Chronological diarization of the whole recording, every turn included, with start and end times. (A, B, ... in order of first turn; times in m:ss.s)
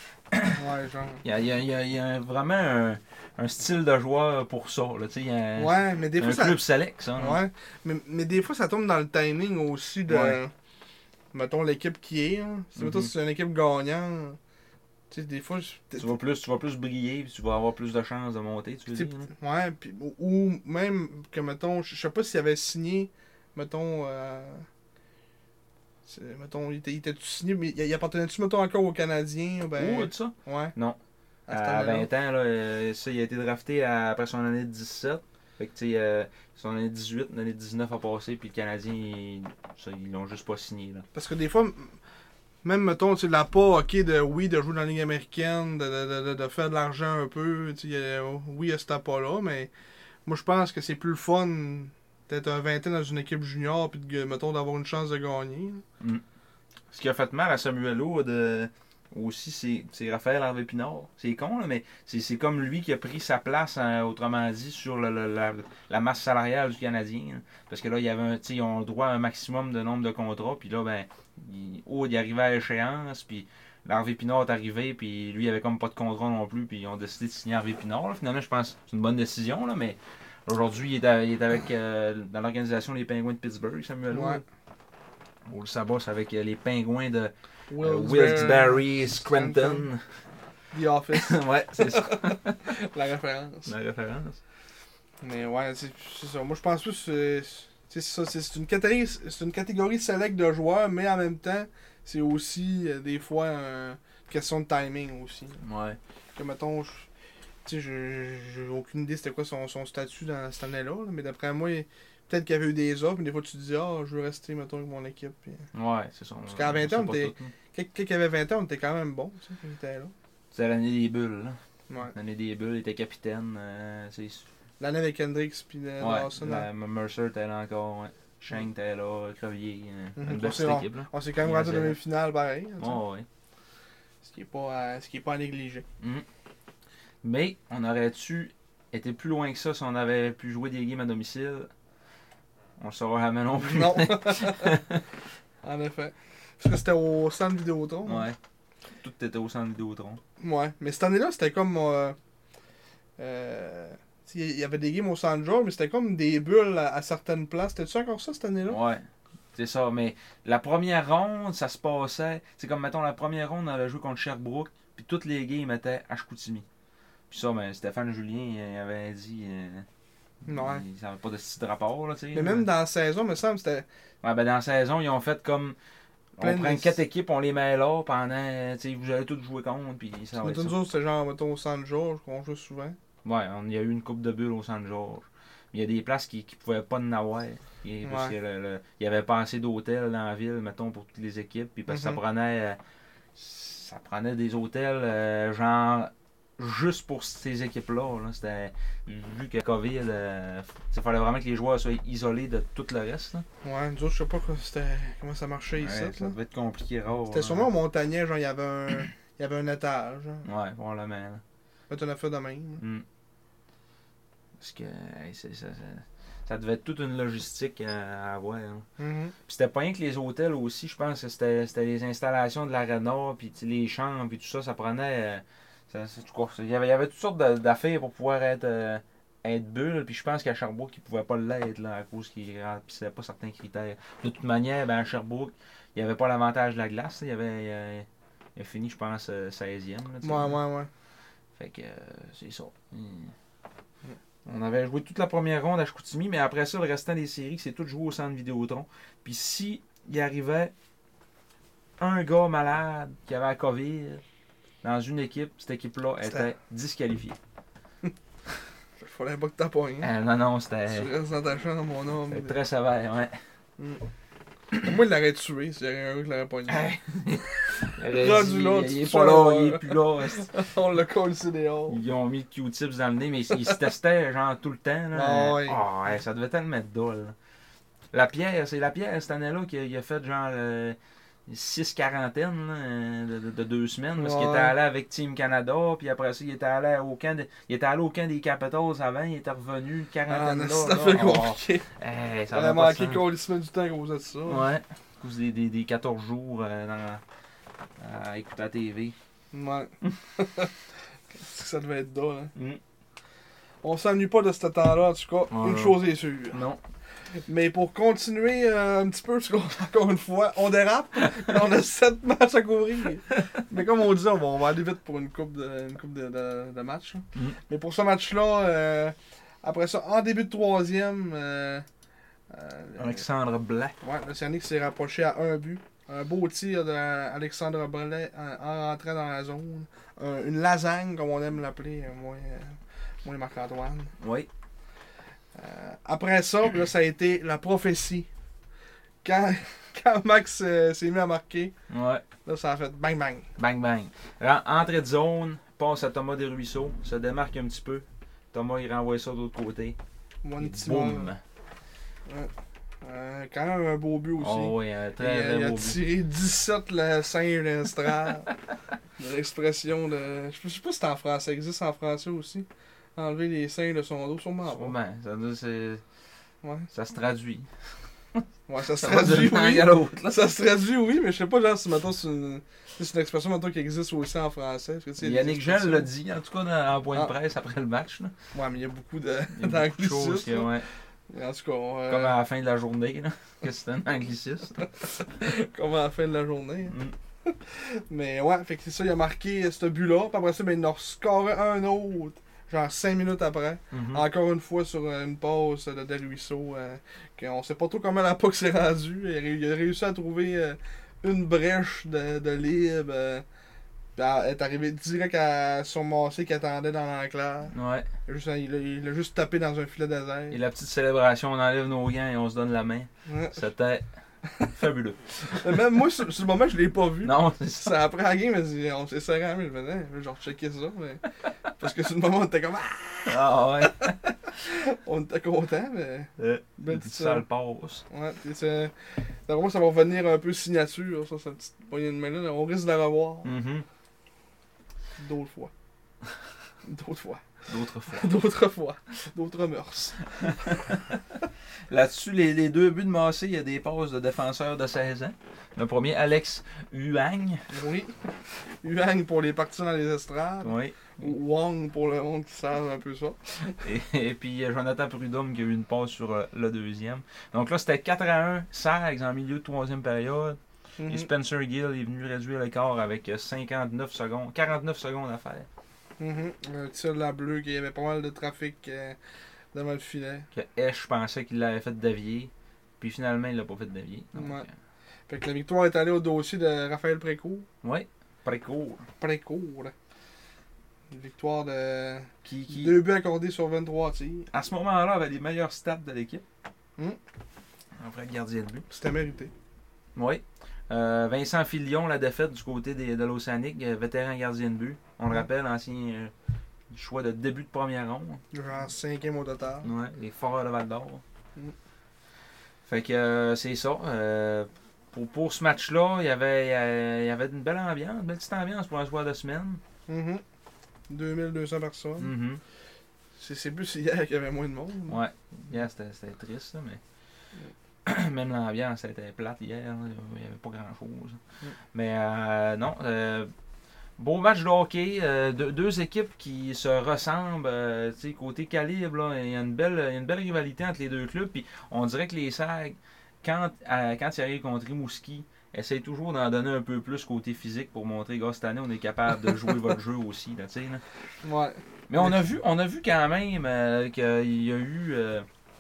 0:00.3-0:00.6 A
0:00.5-0:01.2 B
0:01.2-0:07.4 A
0:05.6-0:06.6 B
0:07.2-0:10.5 B
0:10.1-0:10.4 A
0:11.3-0:14.4 B
0:12.8-0:13.1 A
0:15.1-0:16.1 B
0:16.0-0:19.3 A
0:19.0-0:24.6 B
0:26.0-0:30.7 B
0:29.8-0:31.0 A
0:31.5-0:32.1 B
0:31.5-0:41.0 A
0:41.1-0:42.0 B
0:42.6-0:49.7 B
0:50.2-0:55.8 B
0:56.9-1:24.4 A
1:24.1-1:24.4 B
1:25.5-1:30.0 A
1:27.7-1:29.9 B
1:30.7-1:33.7 B
1:31.1-1:32.7 A
1:33.6-1:34.4 A
1:35.2-1:45.6 B
1:45.6-1:46.0 A
1:46.3-1:47.1 B
1:47.6-1:55.6 B
1:55.7-1:57.5 A
1:56.5-2:00.1 B
2:00.5-2:04.4 A
2:04.8-2:06.7 B
2:06.0-2:12.0 A
2:10.2-2:13.0 B
2:12.8-2:13.3 A
2:14.2-2:15.9 B
2:17.2-2:21.7 A
2:22.8-2:25.0 A
2:23.6-2:24.8 B
2:25.6-2:28.3 B
2:28.0-2:28.4 A
2:29.0-2:30.2 A
2:30.4-2:32.2 B
2:33.2-2:38.8 B
2:38.7-2:46.6 A
2:47.3-2:49.9 A
2:50.5-2:50.8 B
2:50.5-2:52.7 A
2:52.3-2:53.9 B
2:54.2-2:55.8 A
2:56.4-3:00.8 A
2:56.4-2:57.0 B
3:00.4-3:03.0 B
3:03.2-3:12.8 A
3:08.0-3:08.4 B
3:11.9-3:12.2 B
3:13.4-3:23.4 A
3:23.6-3:26.4 B
3:25.8-3:27.7 A
3:27.3-3:30.4 B
3:30.4-3:31.4 A
3:31.9-3:32.8 B
3:34.6-3:38.8 A
3:39.0-3:39.3 B
3:39.4-4:00.6 A
4:00.2-4:00.9 B
4:01.6-4:03.3 A
4:04.4-4:10.7 A
4:12.0-4:14.2 A
4:14.8-4:17.4 A
4:16.2-4:16.5 B
4:19.0-4:20.1 B
4:20.0-4:21.1 A
4:20.9-4:22.6 B
4:22.3-4:23.4 A
4:23.8-4:24.0 B
4:24.8-4:26.9 B
4:26.7-4:30.5 A
4:28.1-4:32.0 B
4:31.9-4:37.3 A
4:35.1-4:35.8 B
4:38.1-4:53.2 A
4:44.2-4:44.7 B
4:50.3-4:51.9 B
4:52.5-4:54.7 B
4:54.4-4:57.2 A
4:58.0-4:59.1 A
4:59.5-5:00.7 B
5:01.4-5:02.5 B
5:03.8-5:06.6 B
5:05.5-5:06.8 A
5:07.4-5:21.8 B
5:22.5-5:23.2 B
5:23.0-5:24.0 A
5:24.0-5:34.1 B
5:34.2-5:34.5 A
5:35.6-5:38.3 B
5:39.2-5:41.7 B
5:41.9-5:42.2 A
5:42.4-5:43.5 B
5:43.6-5:50.0 A
5:50.4-5:51.3 B
5:50.6-5:51.4 A
5:52.3-5:58.5 B
5:54.4-5:56.0 A
5:59.2-6:05.0 B
6:04.7-6:06.0 A
6:06.6-6:06.9 B
6:06.9-6:07.7 A
6:08.4-6:10.3 A
6:08.7-6:16.1 B
6:15.2-6:18.3 A
6:18.5-6:20.7 B
6:19.5-6:20.9 A
6:21.3-6:22.4 B
6:22.1-6:24.9 A
6:25.4-6:43.4 B
6:26.9-6:27.1 A
6:33.9-6:34.2 A
6:44.2-6:47.7 B
6:47.7-6:48.1 A
6:48.3-6:50.6 B
6:50.5-6:54.1 A
6:53.3-6:53.6 B
6:54.6-6:55.6 A
6:55.4-7:01.2 B
6:57.2-6:58.0 A
7:01.8-7:07.4 B
7:03.3-7:04.2 A
7:06.4-7:08.0 A
7:08.1-7:13.5 B
7:13.4-7:13.9 A
7:15.2-7:15.7 B
7:16.8-7:17.4 B
7:17.7-7:18.3 A
7:18.1-7:20.9 B
7:20.5-7:21.2 A
7:21.9-7:27.8 A
7:27.7-7:28.2 B
7:28.8-7:33.8 B
7:30.6-7:31.3 A
7:33.8-7:45.7 A
7:41.0-7:41.3 B
7:46.2-7:49.2 B
7:49.7-7:50.5 B
7:50.5-7:54.7 A
7:54.3-7:54.6 B
7:55.3-7:57.7 B
7:57.8-7:59.1 A
7:59.2-7:59.9 B
8:01.1-8:04.5 B
8:02.4-8:03.0 A
8:04.5-8:06.4 A
8:08.0-8:08.9 A
8:08.9-8:09.5 B
8:10.1-8:16.3 A
8:16.9-8:18.4 A
8:18.5-8:19.9 B
8:19.8-8:21.2 A
8:22.8-8:29.8 A
8:30.1-8:30.4 B
8:31.1-8:32.3 B
8:32.2-8:32.6 A
8:33.4-8:35.2 B
8:35.1-8:37.0 A
8:38.0-8:41.4 A
8:41.9-8:43.5 A
8:44.2-9:01.0 A
9:01.4-9:02.4 B
9:02.1-9:05.4 A